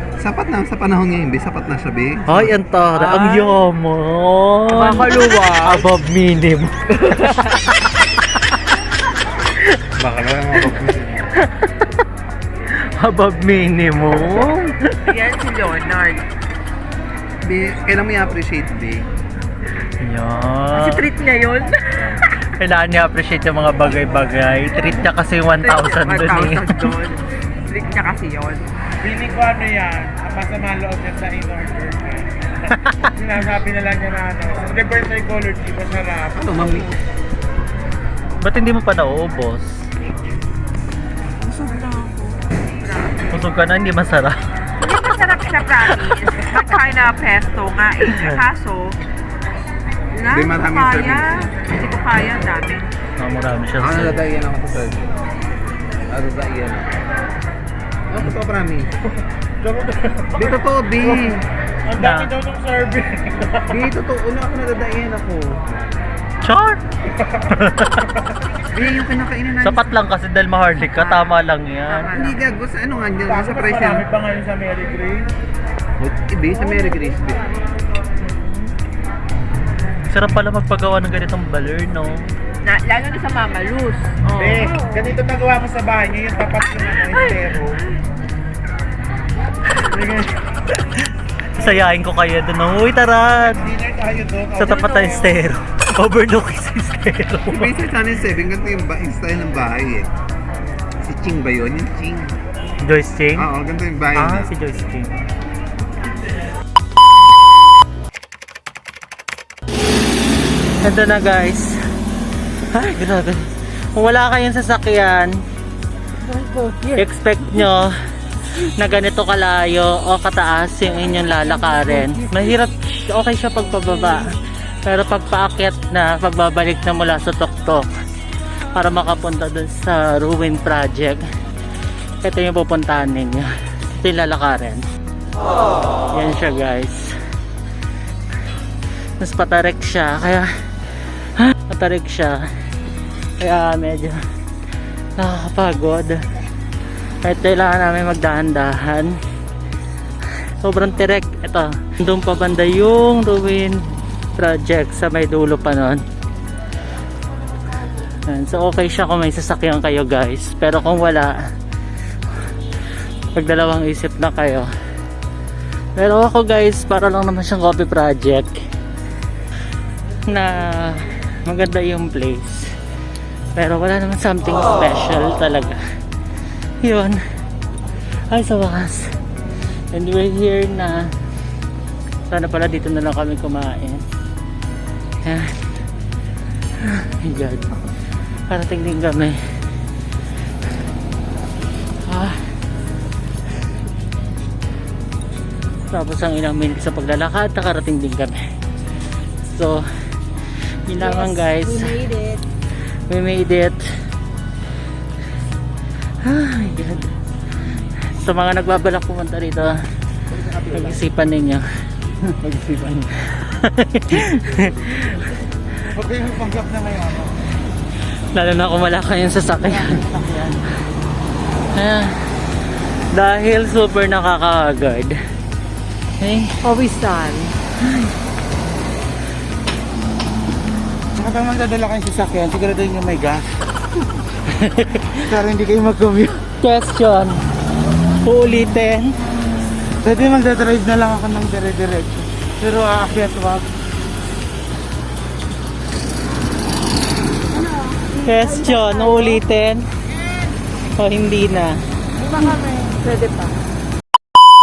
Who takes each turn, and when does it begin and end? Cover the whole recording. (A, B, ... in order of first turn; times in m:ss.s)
0:00.2-0:02.5 A
0:02.3-0:08.4 B
0:02.9-0:03.6 C
0:04.7-0:05.9 C
0:07.0-0:07.6 C
0:10.0-0:11.3 A
0:11.4-0:11.7 B
0:12.7-0:15.1 B
0:15.0-0:16.2 C
0:17.4-0:19.0 A
0:20.0-0:21.0 B
0:20.7-0:22.1 C
0:22.1-0:26.9 B
0:25.6-0:28.8 C
0:29.0-0:32.5 D
0:32.7-0:33.2 B
0:33.1-0:36.9 D
0:36.4-0:36.9 A
0:38.4-0:39.9 B
0:41.4-0:43.2 C
0:43.3-0:44.4 B
0:44.8-0:49.0 C
0:46.0-0:46.4 B
0:48.1-0:48.4 B
0:50.1-0:52.9 C
0:50.3-0:51.5 A
0:53.2-0:54.2 B
0:53.8-0:55.1 A
0:56.1-0:56.9 A
0:58.1-0:58.9 A
0:59.6-1:00.4 D
1:00.3-1:01.4 A
1:01.9-1:02.3 B
1:01.9-1:03.5 D
1:03.7-1:05.6 A
1:06.4-1:06.8 B
1:07.5-1:08.2 B
1:08.7-1:10.0 A
1:09.6-1:12.2 B
1:10.8-1:11.3 C
1:11.9-1:12.4 C
1:12.1-1:14.0 A
1:13.3-1:15.3 D
1:16.0-1:17.5 A
1:20.1-1:22.3 B
1:22.6-1:25.1 C
1:24.3-1:27.8 D
1:27.0-1:27.5 C
1:29.8-1:33.7 B
1:33.5-1:35.3 D
1:34.6-1:37.8 B
1:34.6-1:35.3 C
1:37.5-1:40.1 A
1:41.0-1:42.4 A
1:42.8-1:43.5 B
1:43.4-1:44.5 A
1:44.1-1:45.2 B
1:50.8-1:51.8 B
1:52.7-1:55.4 B
1:56.2-1:57.0 C
1:56.9-1:57.9 B
1:58.6-2:07.9 B
2:08.7-2:11.2 B
2:12.2-2:14.8 B
2:16.1-2:17.2 B
2:19.2-2:20.5 B
2:21.2-2:22.4 B
2:23.4-2:24.2 B
2:25.2-2:26.2 B
2:27.2-2:29.2 B
2:30.6-2:36.0 B
2:38.2-2:41.3 B
2:43.3-2:44.7 B
2:46.0-2:48.6 B
2:50.2-2:52.7 B
2:53.5-2:55.8 B
2:56.8-2:57.2 B
2:58.3-2:59.2 B
2:59.9-3:01.1 B
3:02.3-3:04.0 B
3:05.2-3:05.6 B
3:06.8-3:07.9 B
3:08.5-3:09.4 B
3:12.0-3:12.4 B
3:15.9-3:18.5 B
3:19.4-3:19.8 B
3:20.8-3:22.0 B
3:21.0-3:22.4 C
3:23.1-3:23.9 B
3:26.2-3:27.1 B
3:27.7-3:29.8 B
3:30.4-3:30.8 A
3:30.5-3:35.3 B
3:35.9-3:37.4 D
3:38.3-3:40.6 B
3:39.9-3:40.4 D
3:41.7-3:42.5 B
3:43.1-3:45.2 B
3:46.2-3:48.1 B
3:51.1-3:53.6 D
3:54.5-3:55.3 B
3:55.3-3:56.4 D
3:56.5-3:57.4 B
3:58.2-3:59.1 B
4:00.0-4:03.7 D
4:07.7-4:08.1 C
4:08.1-4:09.8 B
4:08.6-4:09.2 C
4:10.9-4:11.8 B
4:12.2-4:13.5 C